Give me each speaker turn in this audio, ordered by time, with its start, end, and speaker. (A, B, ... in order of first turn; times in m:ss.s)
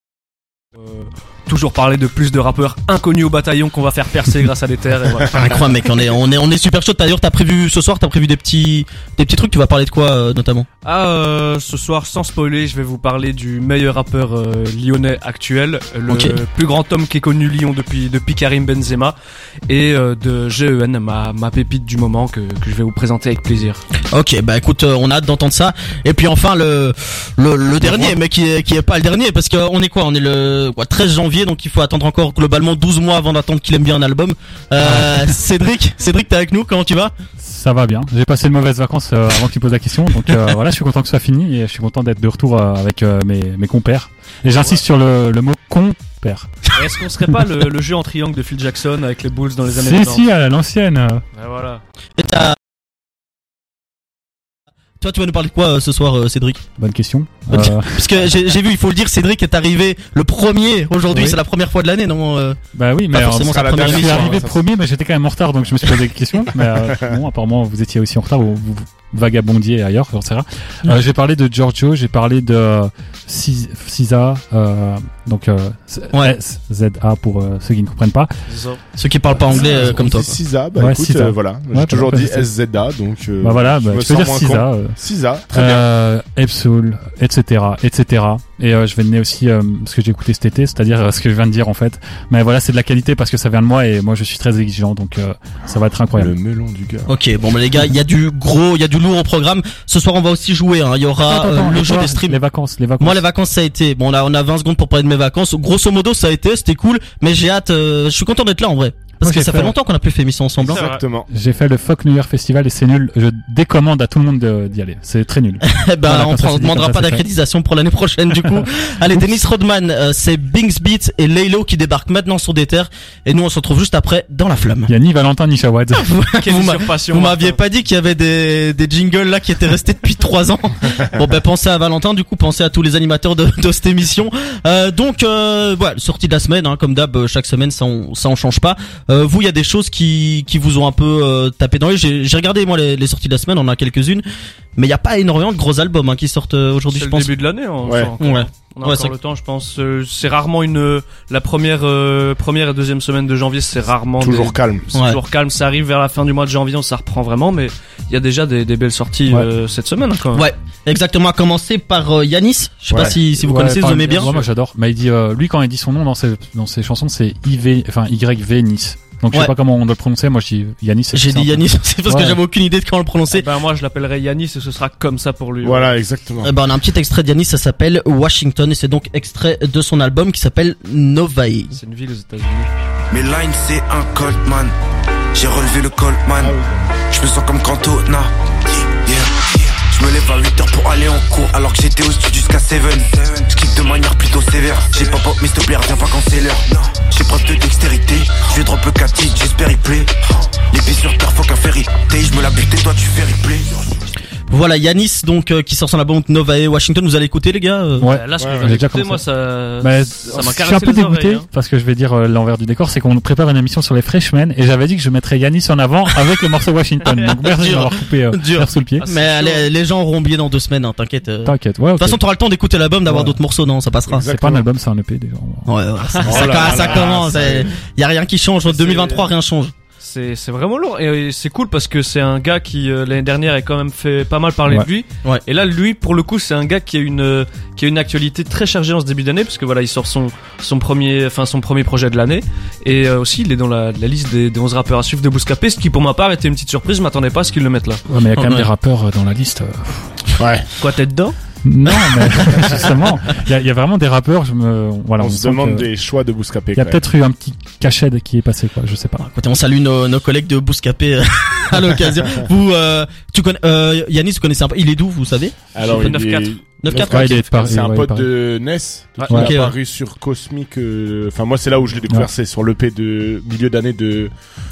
0:00.8-0:05.8 A
0:05.3-0:10.7 B
0:10.8-0:19.2 A
0:16.1-0:16.4 B
0:19.7-0:23.8 A
0:24.1-0:37.1 B
0:34.8-0:35.2 C
0:37.4-0:46.5 C
0:46.7-0:50.2 A
0:49.7-0:51.2 C
0:51.3-0:51.8 A
0:52.2-0:52.6 B
0:55.0-0:56.6 B
0:56.8-0:58.2 C
0:57.5-1:02.6 B
1:01.1-1:01.4 C
1:02.8-1:18.3 C
1:03.1-1:04.4 B
1:03.3-1:04.6 D
1:06.8-1:07.2 D
1:16.1-1:16.4 B
1:18.5-1:18.8 A
1:19.0-1:20.4 B
1:19.5-1:25.9 D
1:20.8-1:22.5 C
1:23.4-1:25.0 C
1:25.5-1:36.3 C
1:36.1-1:37.1 D
1:37.1-1:42.4 B
1:41.2-1:43.2 C
1:43.0-1:50.8 B
1:49.2-1:49.7 C
1:50.6-1:51.3 D
1:50.6-1:51.0 A
1:51.3-1:57.2 C
1:55.6-2:04.9 B
2:04.9-2:06.1 C
2:06.0-2:24.2 B
2:06.3-2:07.6 A
2:24.8-2:27.3 B
2:26.9-2:40.5 A
2:27.8-2:28.1 D
2:28.2-2:29.1 B
2:34.2-2:34.9 D
2:35.0-2:35.2 B
2:40.3-2:44.4 B
2:42.9-2:43.2 D
2:43.4-2:52.4 C
2:51.1-2:53.5 B
2:53.3-2:56.0 A
2:55.6-2:56.5 D
2:56.4-3:01.8 B
3:01.8-3:02.7 A
3:03.1-3:04.7 E
3:05.3-3:06.6 E
3:06.4-3:06.7 D
3:07.1-3:20.1 E
3:20.7-3:23.8 E
3:24.5-3:28.1 B
3:28.0-3:29.2 C
3:28.1-3:31.5 A
3:28.4-3:28.7 D
3:29.8-3:39.0 C
3:37.3-3:44.3 B
3:39.0-3:39.7 A
3:41.4-3:42.2 C
3:43.1-3:43.4 C
3:44.1-3:44.7 D
3:44.3-3:45.7 C
3:45.7-3:49.7 B
3:46.2-3:47.7 D
3:48.7-3:49.3 A
3:50.0-4:08.0 A
4:08.1-4:10.2 C
4:08.4-4:08.7 B
4:10.4-4:10.7 D
4:10.8-4:11.4 A
4:11.6-4:15.9 C
4:15.2-4:17.0 D
4:16.8-4:19.2 C
4:19.2-4:25.6 B
4:25.7-4:34.3 D
4:25.8-4:26.6 A
4:26.8-4:27.4 B
4:26.9-4:28.3 C
4:29.3-4:29.5 C
4:29.3-4:29.7 B